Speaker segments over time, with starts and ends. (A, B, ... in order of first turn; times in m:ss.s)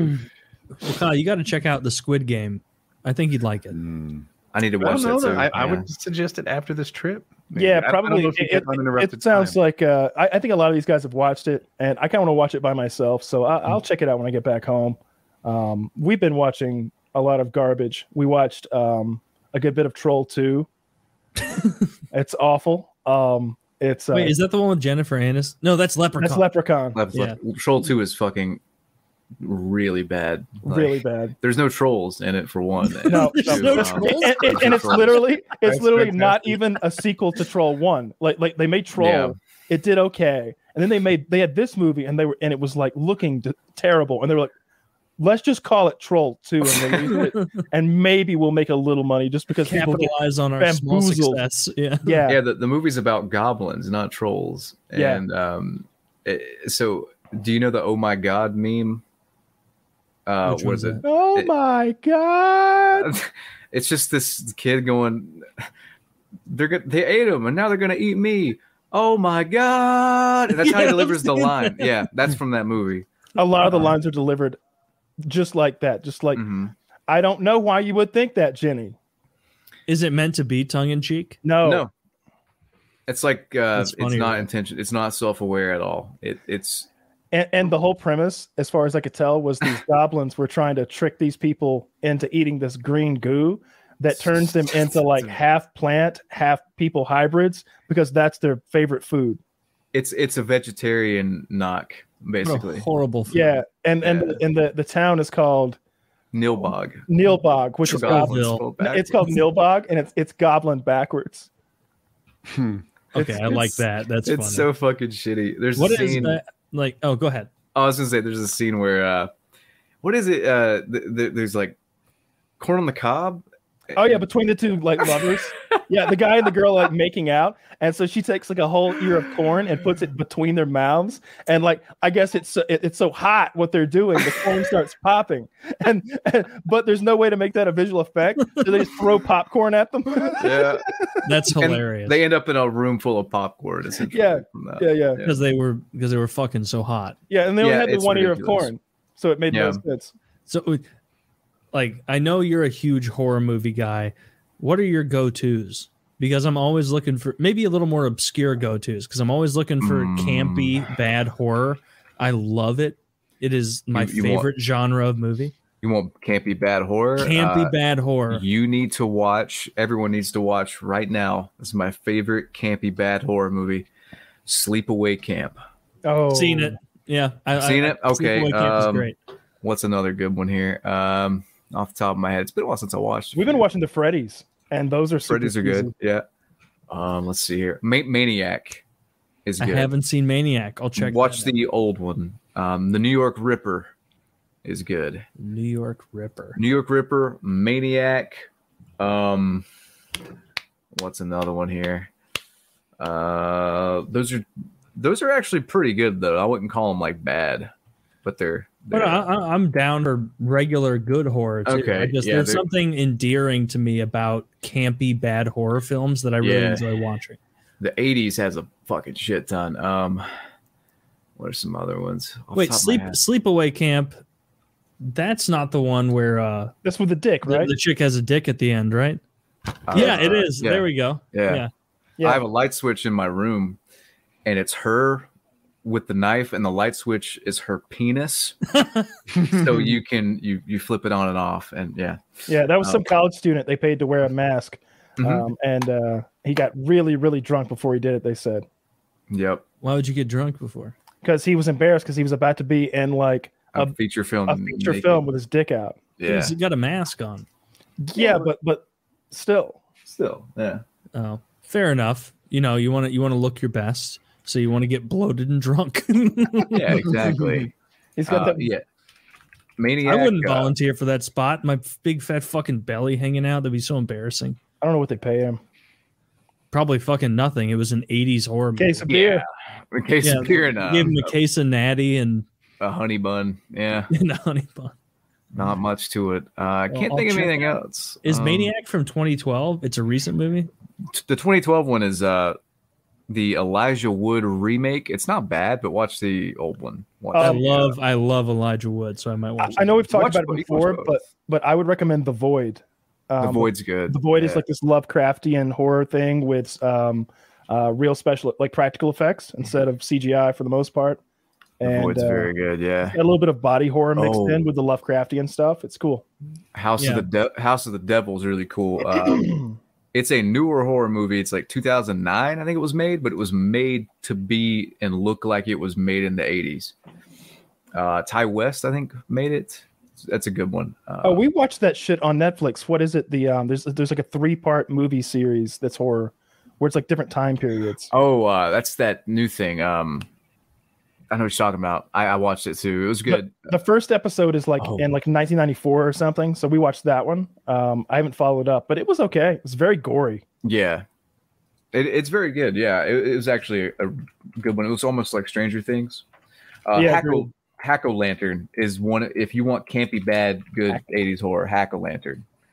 0:00.8-0:03.8 A
0:03.7-0:04.2 B
0:04.5-0:05.8 C
0:04.8-0:09.6 B
0:07.5-0:20.7 D
0:22.1-0:24.4 D
0:24.1-0:26.4 A
0:26.2-0:27.0 D
0:26.9-0:28.6 C
0:27.1-0:27.4 A
0:29.4-0:36.3 C
0:30.6-0:31.4 D
0:32.8-0:35.2 A
0:33.0-0:44.5 D
0:39.0-0:39.3 C
0:45.2-0:51.4 D
0:49.6-0:52.2 A
0:52.0-0:52.4 D
0:52.3-0:59.0 C
0:54.9-0:55.2 D
1:00.2-1:01.5 C
1:00.4-1:01.0 A
1:01.0-1:03.1 D
1:02.9-1:05.6 C
1:06.5-1:13.1 C
1:10.5-1:11.9 A
1:13.4-1:14.6 D
1:13.6-1:13.9 C
1:15.2-1:16.4 D
1:16.3-1:16.7 C
1:17.1-1:19.0 D
1:19.9-1:21.4 A
1:21.4-1:21.8 D
1:21.6-1:21.9 C
1:23.1-1:26.9 C
1:23.7-1:24.5 A
1:27.3-1:39.4 D
1:39.9-1:42.9 C
1:42.4-1:43.6 A
1:43.3-1:45.8 D
1:44.0-1:44.4 C
1:46.3-1:47.0 C
1:46.6-1:51.5 D
1:47.8-1:49.1 C
1:47.8-1:48.6 A
1:52.5-1:52.8 B
1:53.1-1:54.7 A
1:53.1-1:56.4 C
1:55.8-1:57.5 A
1:57.7-1:59.3 C
2:00.0-2:01.8 C
2:02.6-2:04.3 C
2:03.9-2:21.2 D
2:20.4-2:20.8 C
2:21.2-2:22.2 A
2:21.5-2:25.3 C
2:24.1-2:25.2 D
2:25.2-2:27.2 A
2:27.3-2:30.1 D
2:27.6-2:28.7 C
2:29.5-2:29.8 C
2:30.5-2:30.8 A
2:31.7-2:45.5 A
2:39.8-2:40.8 C
2:43.9-2:44.5 C
2:45.8-2:47.7 C
2:47.2-2:48.4 A
2:48.3-2:53.9 C
2:54.4-2:55.6 C
2:56.0-2:56.8 D
2:56.3-2:59.2 A
2:57.6-2:59.1 C
2:59.6-3:03.6 C
3:03.3-3:05.9 D
3:05.3-3:06.2 C
3:06.9-3:08.8 C
3:09.4-3:09.9 C
3:09.6-3:11.5 A
3:10.9-3:13.9 C
3:14.6-3:15.2 C
3:15.4-3:16.6 A
3:16.6-3:18.5 C
3:19.0-3:19.6 C
3:20.9-3:22.1 C
3:23.0-3:27.7 C
3:28.2-3:29.2 C
3:28.9-3:37.4 A
3:31.6-3:32.6 C
3:36.4-3:36.9 C
3:37.8-3:40.3 C
3:41.4-3:43.2 C
3:42.5-3:44.2 A
3:45.0-3:46.7 A
3:46.8-3:47.7 D
3:47.4-3:49.2 A
3:49.9-3:51.6 C
3:49.9-3:51.7 A
3:52.2-3:53.8 C
3:54.4-3:55.3 C
3:55.8-3:58.6 C
3:58.8-3:59.1 A
3:59.4-4:03.1 C
4:02.5-4:08.6 D
4:05.2-4:05.4 C
4:09.3-4:09.6 C
4:09.8-4:10.9 A
4:11.2-4:13.9 D
4:13.7-4:15.2 C
4:14.5-4:16.0 D
4:16.2-4:16.5 C
4:16.2-4:17.4 A
4:18.0-4:19.8 D
4:20.0-4:20.8 C
4:21.1-4:27.2 A
4:26.7-4:27.7 C
4:28.2-4:28.7 D
4:28.3-4:28.8 C
4:29.8-4:30.7 C
4:30.0-4:34.6 A
4:34.8-4:35.6 D
4:36.7-4:39.1 A
4:38.8-4:39.4 D
4:39.1-4:41.2 C
4:40.2-4:42.4 A
4:42.8-4:44.1 C
4:44.1-4:44.9 A
4:45.5-4:48.7 C
4:46.9-4:50.7 A
4:51.1-4:52.6 C
4:53.3-4:58.0 C
4:57.3-4:57.6 D
4:57.4-5:00.0 A
4:59.6-5:11.2 D
4:59.7-5:01.2 C
5:03.4-5:04.6 C
5:11.8-5:12.5 D
5:11.8-5:13.2 C
5:13.1-5:16.2 D
5:14.2-5:14.6 C
5:16.7-5:19.6 C
5:17.0-5:17.3 A
5:19.2-5:19.7 D
5:20.1-5:26.9 C
5:27.9-5:31.4 C
5:31.2-5:38.1 D
5:38.1-5:40.3 C
5:41.3-5:43.7 C
5:43.3-5:50.4 D
5:44.8-5:45.0 C
5:50.6-5:51.0 C
5:51.9-5:56.2 C
5:56.8-6:02.4 C
5:56.9-5:57.5 D